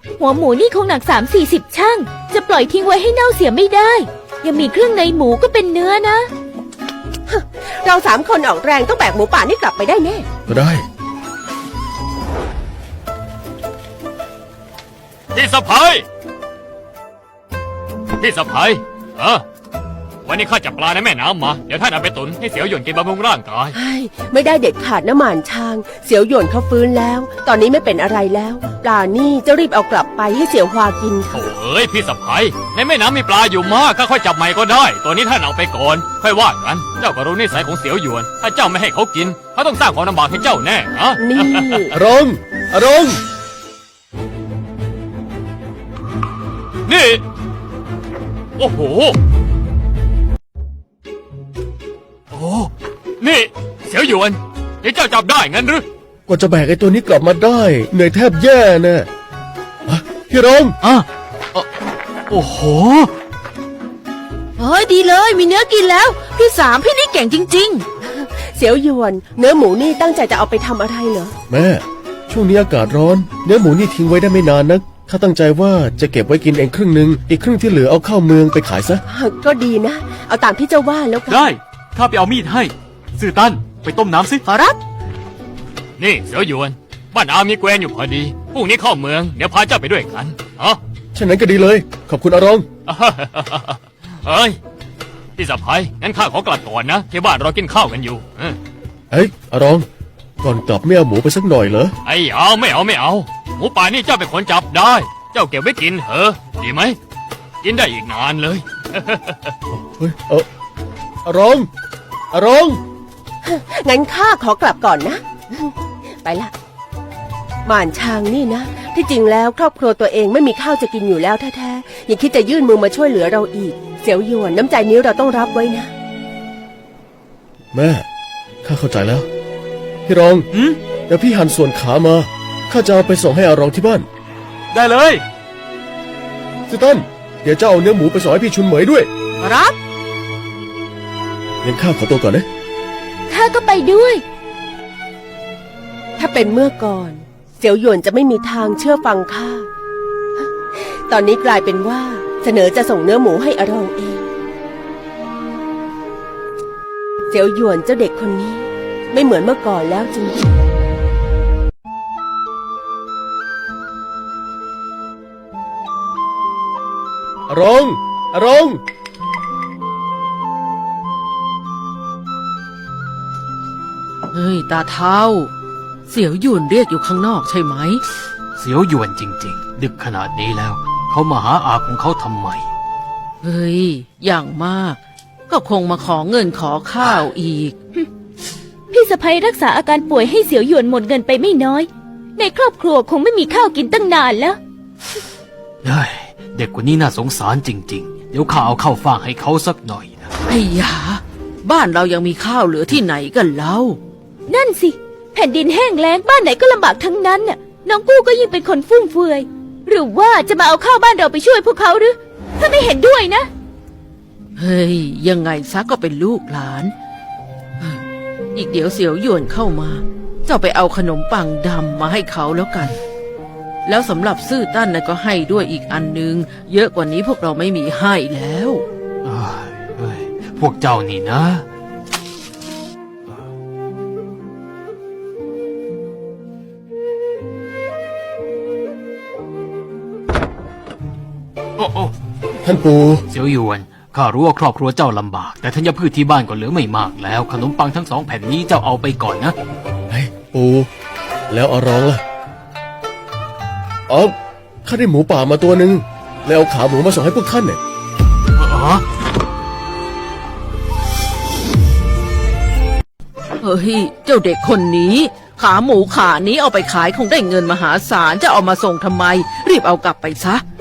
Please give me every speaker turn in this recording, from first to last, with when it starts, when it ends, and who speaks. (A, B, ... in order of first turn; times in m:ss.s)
0:00.2-0:06.3 A
0:07.3-0:10.2 B
0:10.5-0:10.8 C
0:15.3-0:16.0 D
0:18.2-0:19.4 D
0:20.2-0:23.8 D
0:23.7-0:31.4 B
0:31.3-0:41.9 D
0:41.2-0:41.9 B
0:41.9-0:43.2 C
0:46.8-0:47.2 D
0:48.6-0:49.2 D
0:52.3-0:55.8 D
0:56.3-0:59.1 C
0:59.8-1:00.8 C
1:00.8-1:01.6 E
1:02.3-1:03.1 E
1:04.6-1:07.8 F
1:08.0-1:11.3 B
1:11.5-1:19.0 C
1:19.1-1:21.5 B
1:21.3-1:24.4 E
1:24.5-1:24.8 F
1:26.0-1:30.8 D
1:31.1-1:32.6 C
1:32.9-1:34.6 D
1:35.4-1:38.6 D
1:39.1-1:39.9 C
1:40.4-1:41.9 C
1:42.0-1:47.0 D
1:47.6-1:49.5 D
1:49.7-1:50.4 C
1:51.2-1:51.7 C
1:52.3-1:52.8 C
1:53.4-1:56.5 B
1:57.6-2:05.9 B
2:07.7-2:08.0 C
2:08.6-2:09.3 C
2:10.0-2:10.5 C
2:11.1-2:14.0 C
2:14.7-2:15.2 E
2:16.7-2:19.1 C
2:19.4-2:19.8 F
2:21.6-2:22.4 C
2:23.3-2:24.2 A
2:26.2-2:29.7 B
2:30.7-2:34.3 B
2:37.3-2:40.4 B
2:47.5-2:48.8 C
2:54.3-2:55.5 F
2:56.1-2:58.0 F
2:58.6-3:02.7 E
3:03.4-3:07.7 F
3:08.9-3:14.6 A
3:15.8-3:20.3 E
3:20.5-3:24.0 F
3:24.5-3:33.5 A
3:34.6-3:36.9 F
3:38.5-3:43.0 F
3:43.8-3:48.8 F
3:49.2-3:51.6 E
4:01.8-4:02.1 E
4:02.6-4:03.2 C
4:03.3-4:09.6 E
4:10.1-4:10.9 C
4:11.5-4:12.2 C
4:14.1-4:14.3 C
4:14.8-4:17.8 C
4:18.6-4:19.0 E
4:23.6-4:30.6 F